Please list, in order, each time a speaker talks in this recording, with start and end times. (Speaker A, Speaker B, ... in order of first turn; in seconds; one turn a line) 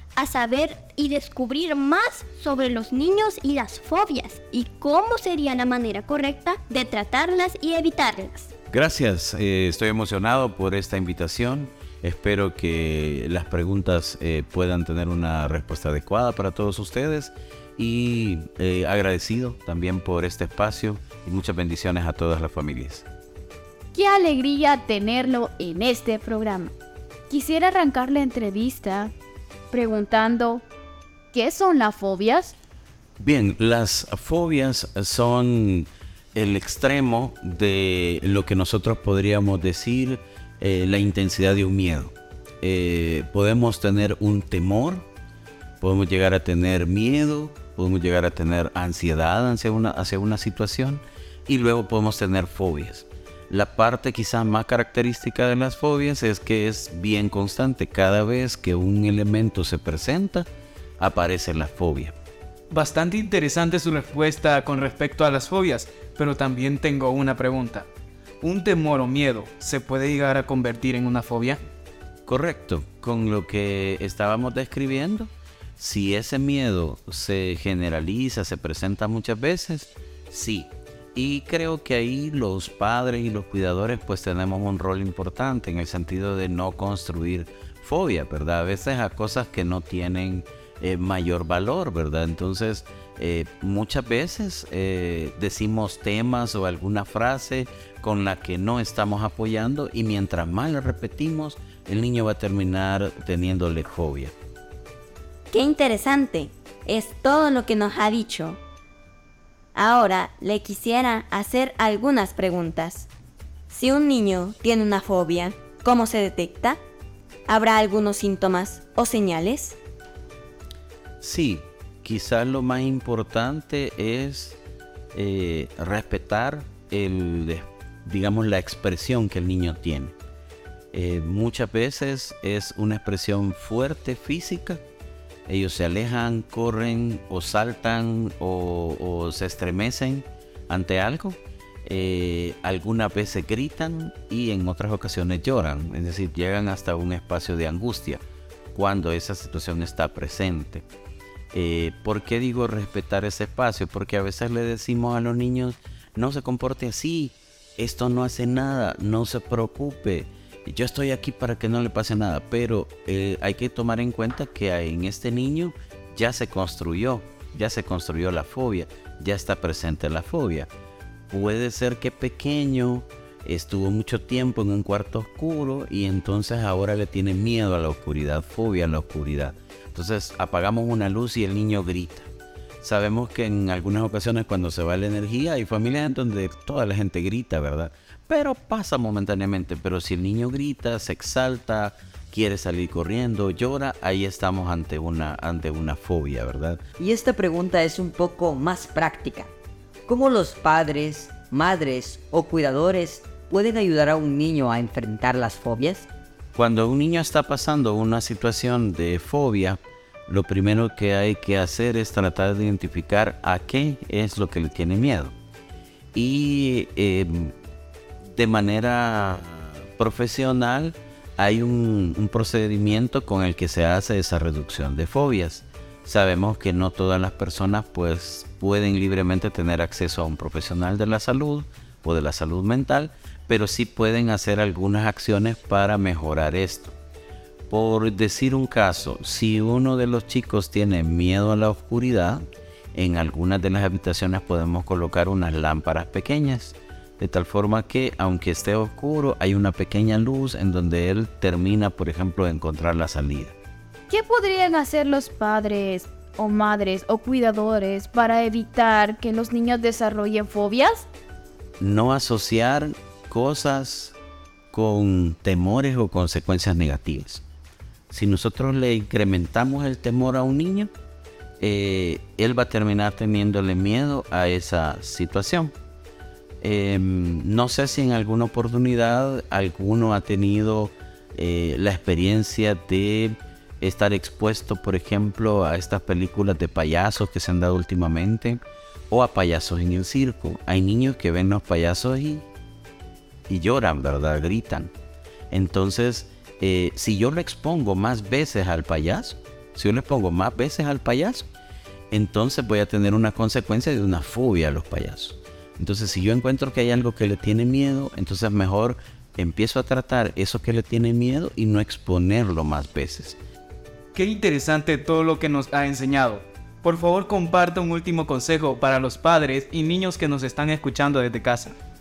Speaker A: 0.2-3.0
Speaker B: 0.4-6.5
Speaker A: 3.5-8.3
Speaker B: 7.1-8.0
Speaker C: 8.7-23.0
Speaker D: 23.9-26.7
Speaker D: 27.3-29.1
Speaker D: 29.7-30.6
Speaker D: 31.3-32.5
Speaker C: 33.2-45.0
Speaker C: 45.8-60.5
Speaker C: 61.0-62.1
Speaker A: 62.7-67.9
Speaker A: 68.4-71.6
Speaker C: 72.2-104.3
Speaker E: 105.5-108.6
Speaker E: 109.7-113.1
Speaker E: 113.7-116.8
Speaker E: 117.5-119.8
Speaker C: 121.2-124.6
Speaker C: 125.1-130.1
Speaker C: 130.9-134.8
Speaker C: 135.5-148.2
Speaker C: 148.7-150.8
Speaker C: 151.5-170.7
Speaker C: 171.3-182.3
Speaker C: 182.8-196.8
Speaker F: 197.0-199.5
Speaker F: 200.1-206.1
Speaker C: 206.5-215.3
Speaker C: 216.1-217.5
Speaker C: 218.2-236.9
Speaker C: 237.7-253.5
Speaker D: 254.1-261.1
Speaker C: 261.8-264.1
Speaker C: 264.7-267.4
Speaker C: 268.1-270.9
Speaker C: 271.6-275.7
Speaker C: 276.6-292.5
Speaker C: 293.5-294.9
Speaker C: 295.5-301.5
Speaker C: 302.1-313.4
Speaker A: 314.1-321.7